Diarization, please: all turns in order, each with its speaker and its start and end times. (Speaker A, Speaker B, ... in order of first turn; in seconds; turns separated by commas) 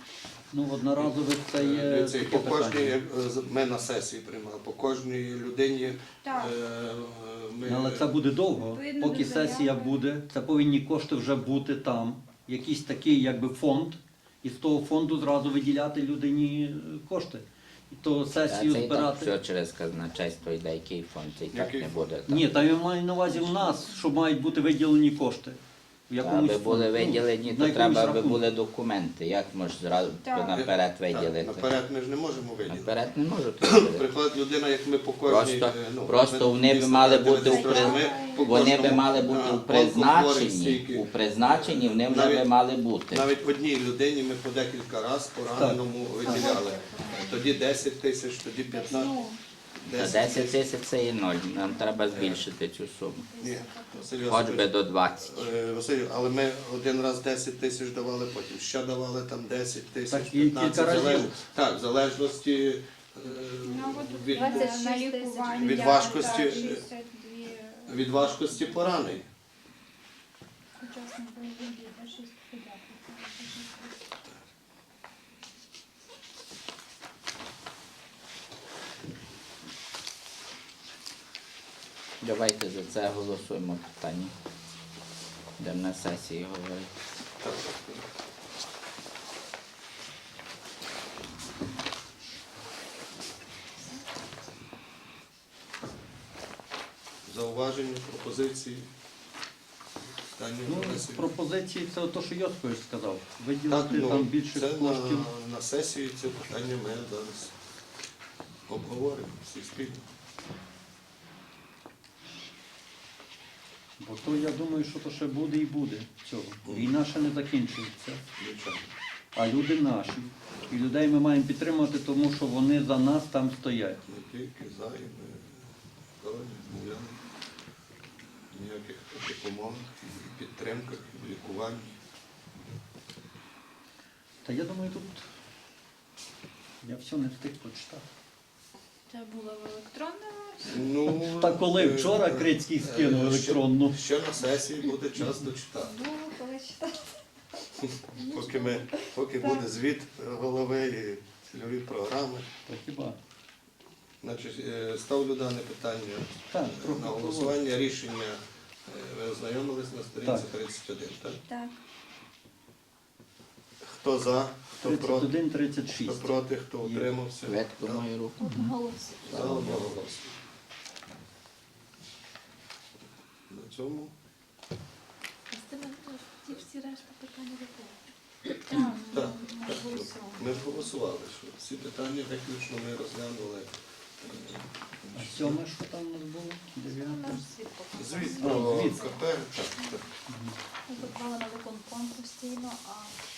Speaker A: 0.5-3.0, Speaker B: 0.9-8.2, Speaker C: 6.2-6.5, Speaker A: 7.7-19.3, Speaker C: 8.5-9.9, Speaker D: 18.5-22.5, Speaker B: 21.5-22.2, Speaker A: 22.3-25.6, Speaker E: 23.5-24.0, Speaker A: 26.1-28.4, Speaker D: 26.2-31.7, Speaker C: 30.2-30.6, Speaker B: 30.5-32.9, Speaker D: 32.7-34.1, Speaker B: 33.6-42.5, Speaker D: 35.2-43.3, Speaker C: 37.4-39.3, Speaker B: 43.1-49.2, Speaker A: 45.5-46.6, Speaker E: 46.1-47.5, Speaker C: 46.6-47.3, Speaker C: 48.7-49.4, Speaker B: 49.9-50.7, Speaker D: 49.9-53.3, Speaker B: 52.1-52.5, Speaker B: 53.4-64.8, Speaker C: 53.6-54.1, Speaker D: 54.2-55.5, Speaker A: 60.1-61.4, Speaker C: 63.6-68.8, Speaker E: 64.3-66.7, Speaker B: 65.5-66.9, Speaker B: 67.9-69.3, Speaker C: 70.8-72.5, Speaker E: 71.5-73.7, Speaker C: 73.2-73.9, Speaker D: 82.2-84.3, Speaker D: 85.6-86.9, Speaker B: 87.4-88.0, Speaker B: 97.3-98.9, Speaker B: 100.3-101.3, Speaker A: 100.7-105.3, Speaker B: 103.7-107.5, Speaker B: 108.7-110.0, Speaker A: 114.0-118.2, Speaker B: 116.7-117.0, Speaker B: 118.4-118.8, Speaker A: 119.3-124.0, Speaker B: 124.1-125.6, Speaker B: 126.2-127.2, Speaker B: 128.5-132.0, Speaker A: 134.4-135.2, Speaker A: 136.8-138.0, Speaker C: 139.1-140.9, Speaker E: 139.3-140.0, Speaker B: 140.6-146.0, Speaker A: 141.1-144.0, Speaker C: 145.8-147.2, Speaker C: 148.2-149.7, Speaker B: 148.2-152.5, Speaker A: 152.7-153.2, Speaker B: 154.2-161.4, Speaker A: 156.5-157.6, Speaker A: 160.2-160.5, Speaker C: 161.5-161.8, Speaker B: 163.9-165.3, Speaker A: 164.8-167.1, Speaker B: 166.0-168.1, Speaker D: 167.5-168.7, Speaker E: 168.4-169.3, Speaker A: 168.4-168.7, Speaker B: 169.2-170.3, Speaker D: 169.3-169.9, Speaker B: 173.5-174.1, Speaker F: 175.5-178.0, Speaker C: 178.7-179.6, Speaker E: 178.7-180.9, Speaker B: 179.0-185.6, Speaker A: 185.1-187.4, Speaker E: 186.8-189.3, Speaker B: 187.9-190.1, Speaker A: 188.4-189.1, Speaker A: 190.3-190.6, Speaker E: 190.9-193.2